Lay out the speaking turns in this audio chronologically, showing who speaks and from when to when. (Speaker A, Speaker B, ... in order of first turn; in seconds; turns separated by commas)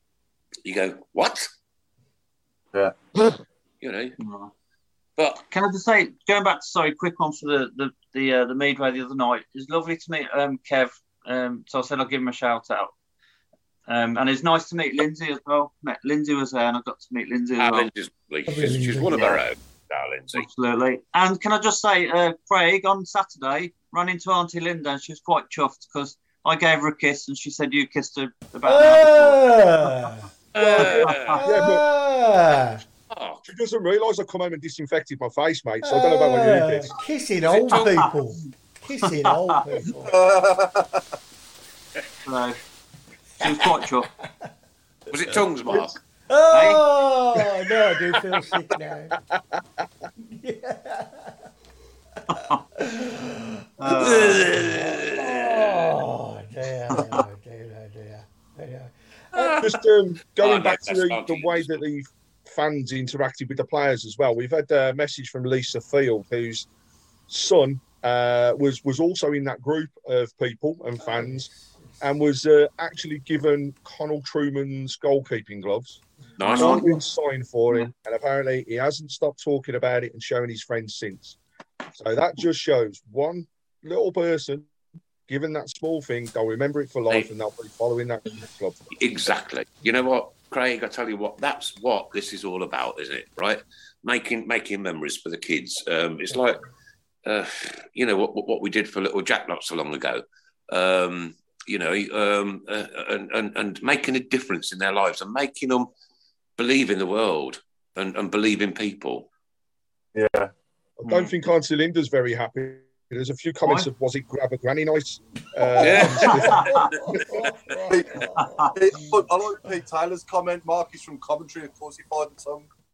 Speaker A: 0.6-1.5, Speaker A: 3.8-4.2, Speaker B: 4.2-4.5, Speaker A: 5.2-5.5, Speaker B: 5.5-12.9, Speaker B: 13.9-17.9, Speaker A: 17.6-20.5, Speaker C: 18.5-19.3, Speaker B: 19.1-19.4, Speaker B: 20.4-29.5, Speaker C: 28.6-32.8, Speaker A: 30.6-31.4, Speaker B: 30.8-31.4, Speaker D: 31.4-31.9, Speaker A: 33.1-33.4, Speaker D: 33.4-36.9, Speaker C: 35.8-40.2, Speaker A: 37.5-38.1, Speaker B: 39.2-39.6, Speaker E: 40.1-41.0, Speaker B: 42.3-42.6, Speaker B: 43.4-44.1, Speaker A: 45.1-46.0, Speaker C: 46.3-49.1, Speaker B: 46.5-46.8, Speaker C: 50.3-51.3, Speaker B: 52.3-52.6, Speaker C: 52.8-59.6, Speaker B: 53.8-54.6, Speaker A: 53.9-56.0, Speaker B: 56.9-57.2, Speaker A: 59.3-59.7, Speaker D: 59.6-66.7, Speaker A: 60.4-61.8, Speaker D: 67.3-71.5, Speaker C: 71.0-71.5, Speaker D: 72.0-76.0, Speaker A: 76.4-77.0, Speaker C: 76.4-76.8, Speaker D: 76.5-81.4, Speaker D: 82.0-84.7, Speaker D: 85.3-88.8, Speaker A: 88.9-96.6, Speaker A: 97.2-105.9, Speaker A: 106.6-109.3, Speaker E: 110.2-110.5, Speaker D: 111.0-116.7, Speaker C: 115.8-119.2, Speaker A: 115.8-117.8, Speaker B: 116.2-116.9, Speaker E: 117.9-122.7, Speaker B: 118.4-118.7